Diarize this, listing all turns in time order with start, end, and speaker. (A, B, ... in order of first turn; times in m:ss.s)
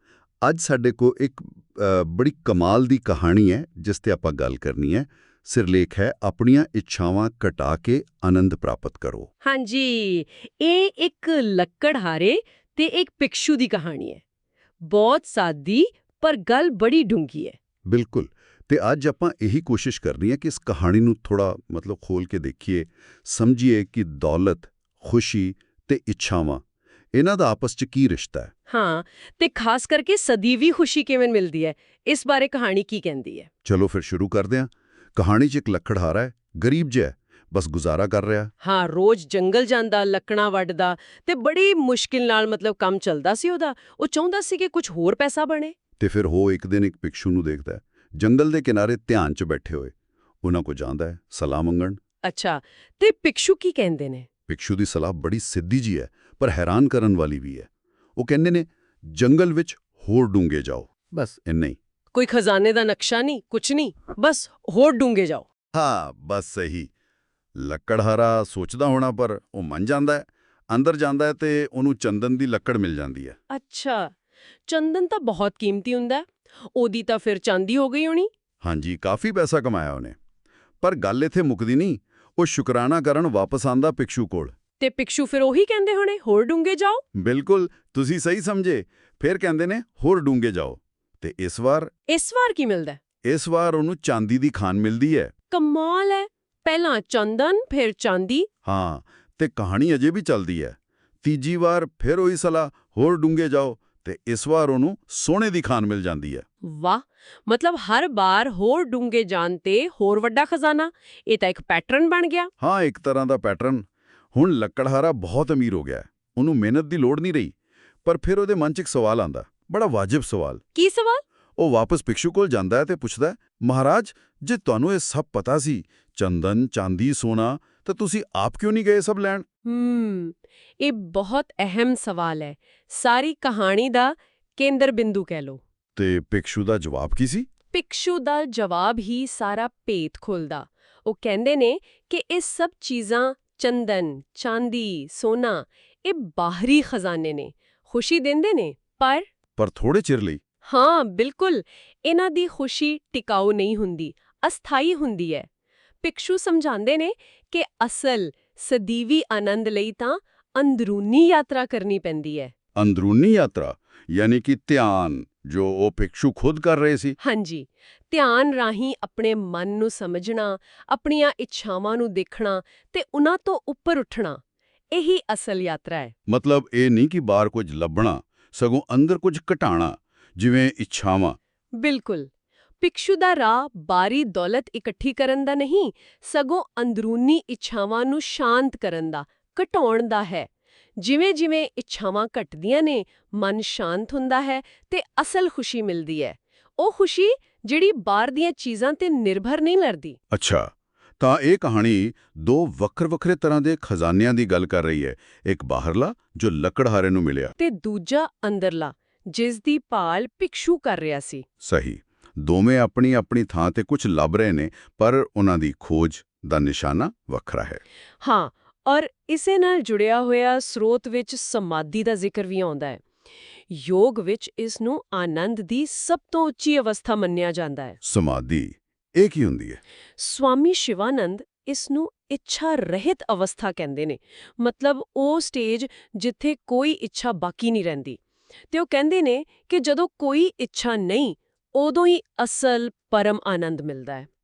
0:00.4-0:09.3 A
0:09.4-0:14.2 B
0:14.9-0:17.6 B
0:17.9-0:26.6 A
0:27.1-0:28.5 A
0:28.7-0:33.5 B
0:33.6-0:38.5 A
0:38.6-0:45.8 B
0:46.0-0:52.0 A
0:52.2-0:54.3 B
0:54.5-1:01.8 A
1:02.1-1:05.4 B
1:05.7-1:06.9 A
1:07.6-1:13.4 A
1:13.5-1:14.1 B
1:14.7-1:18.3 B
1:18.6-1:20.2 A
1:20.8-1:24.6 A
1:24.8-1:27.0 B
1:27.2-1:31.9 A
1:32.1-1:33.0 B
1:33.2-1:35.3 A
1:35.5-1:38.5 B
1:38.6-1:46.4 A
1:46.6-1:52.5 B
1:52.6-1:57.5 A
1:58.0-2:00.6 A
2:00.8-2:01.2 B
2:01.6-2:09.5 A
2:09.6-2:15.6 B
2:16.0-2:17.5 A
2:17.7-2:29.3 B
2:29.6-2:30.4 A
2:30.6-2:35.5 B
2:36.0-2:42.5 B
2:42.8-2:47.2 A
2:47.2-2:54.4 B
2:54.9-2:56.1 B
2:56.3-3:01.4 A
3:01.8-3:02.3 B
3:02.8-3:20.2 B
3:20.3-3:20.7 A
3:21.2-3:27.5 A
3:27.6-3:31.4 B
3:31.6-3:37.8 A
3:38.2-3:43.0 B
3:43.7-3:48.0 B
3:48.0-3:49.8 A
3:50.2-3:58.2 B
3:58.7-4:04.3 B